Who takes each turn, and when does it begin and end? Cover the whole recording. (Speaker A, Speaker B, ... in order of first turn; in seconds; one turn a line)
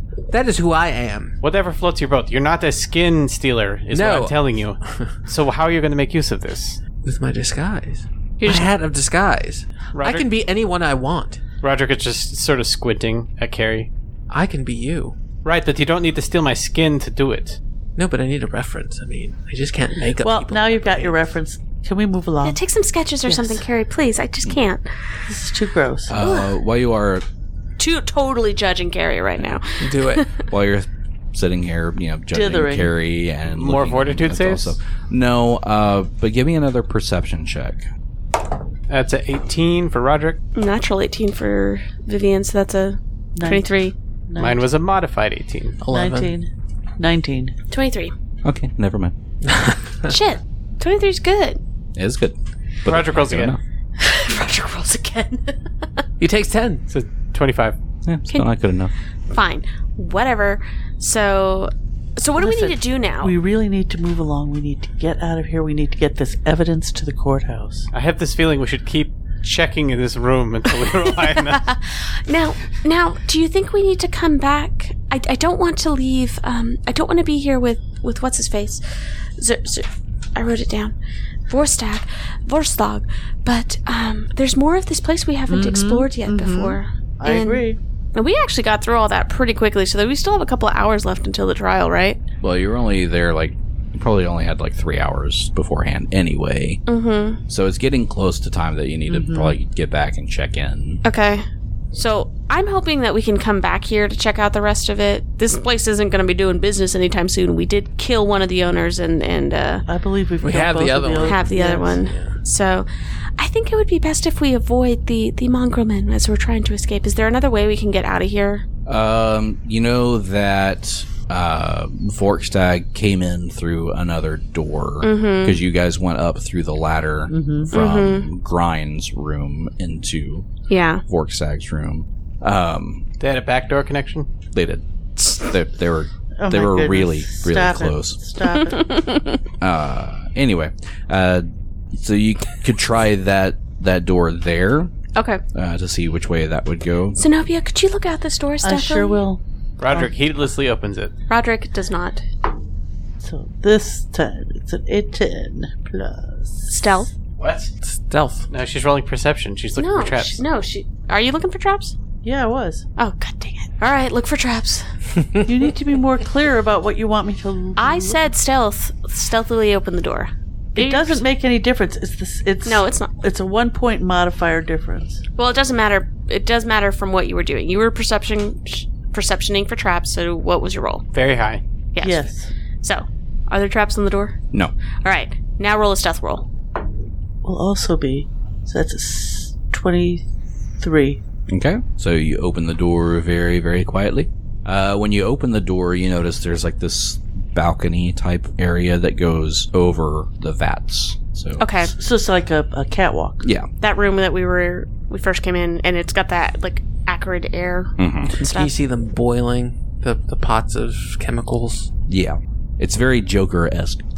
Speaker A: 0.3-1.4
Speaker B: 1.4-6.8
Speaker A: 3.9-5.1
Speaker A: 7.0-11.4
Speaker C: 8.4-8.7
Speaker B: 9.9-10.2
Speaker B: 11.6-13.9
Speaker A: 14.3-15.1
Speaker B: 15.4-17.6
Speaker A: 18.0-21.2
Speaker D: 20.2-22.6
Speaker C: 22.4-24.9
Speaker D: 23.2-23.6
Speaker D: 25.3-26.2
Speaker E: 26.1-27.2
Speaker C: 26.2-26.6
Speaker C: 27.8-30.3
Speaker A: 29.8-30.2
Speaker E: 30.5-37.9
Speaker D: 32.3-32.9
Speaker B: 33.5-34.7
Speaker B: 38.9-40.4
Speaker C: 40.5-43.9
Speaker D: 43.4-43.8
Speaker D: 44.3-44.7
Speaker B: 44.4-45.8
Speaker A: 45.8-46.4
Speaker D: 45.9-47.5
Speaker C: 47.7-48.1
Speaker E: 48.4-49.1
Speaker A: 49.4-50.1
Speaker C: 50.0-51.6
Speaker E: 52.0-53.6
Speaker B: 52.9-53.6
Speaker C: 54.0-55.6
Speaker A: 56.2-56.8
Speaker B: 56.9-57.8
Speaker E: 58.0-58.9
Speaker C: 59.3-63.3
Speaker D: 62.4-67.9
Speaker B: 67.9-71.7
Speaker C: 71.4-78.8
Speaker C: 79.4-81.0
Speaker C: 81.5-92.2
Speaker D: 85.5-87.8
Speaker E: 92.4-96.8
Speaker C: 96.9-97.4
Speaker E: 97.5-101.0
Speaker D: 99.1-99.5
Speaker C: 101.0-109.8
Speaker D: 109.9-112.0
Speaker A: 110.4-111.5
Speaker C: 111.2-118.6
Speaker A: 112.0-112.4
Speaker E: 118.9-130.5
Speaker C: 125.0-125.6
Speaker D: 127.3-127.7
Speaker C: 127.7-128.3
Speaker C: 130.7-131.0
Speaker E: 131.1-133.1
Speaker B: 133.2-134.3
Speaker E: 134.5-138.2
Speaker D: 136.4-139.0
Speaker C: 138.5-139.4
Speaker E: 139.6-144.9
Speaker C: 145.1-145.4
Speaker E: 145.5-147.2
Speaker C: 147.2-149.2
Speaker D: 148.6-150.1
Speaker B: 149.8-151.1
Speaker C: 151.3-152.2
Speaker D: 153.2-157.1
Speaker C: 156.7-157.1
Speaker B: 157.4-157.7
Speaker A: 157.8-158.5
Speaker B: 158.5-160.4
Speaker C: 159.8-161.9
Speaker D: 162.2-162.8
Speaker C: 163.0-164.9
Speaker D: 165.4-168.3
Speaker C: 167.8-171.2
Speaker D: 170.8-175.2
Speaker C: 172.6-173.1
Speaker C: 175.4-181.0
Speaker B: 181.1-181.6
Speaker C: 181.9-182.3
Speaker D: 182.0-182.5
Speaker C: 182.8-184.4
Speaker C: 185.0-186.5
Speaker D: 187.4-190.3
Speaker D: 190.8-191.2
Speaker E: 191.5-201.7
Speaker C: 201.6-201.9
Speaker D: 201.9-203.5
Speaker E: 203.4-203.7
Speaker C: 203.8-208.7
Speaker E: 208.0-208.4
Speaker A: 208.4-211.9
Speaker E: 212.1-214.0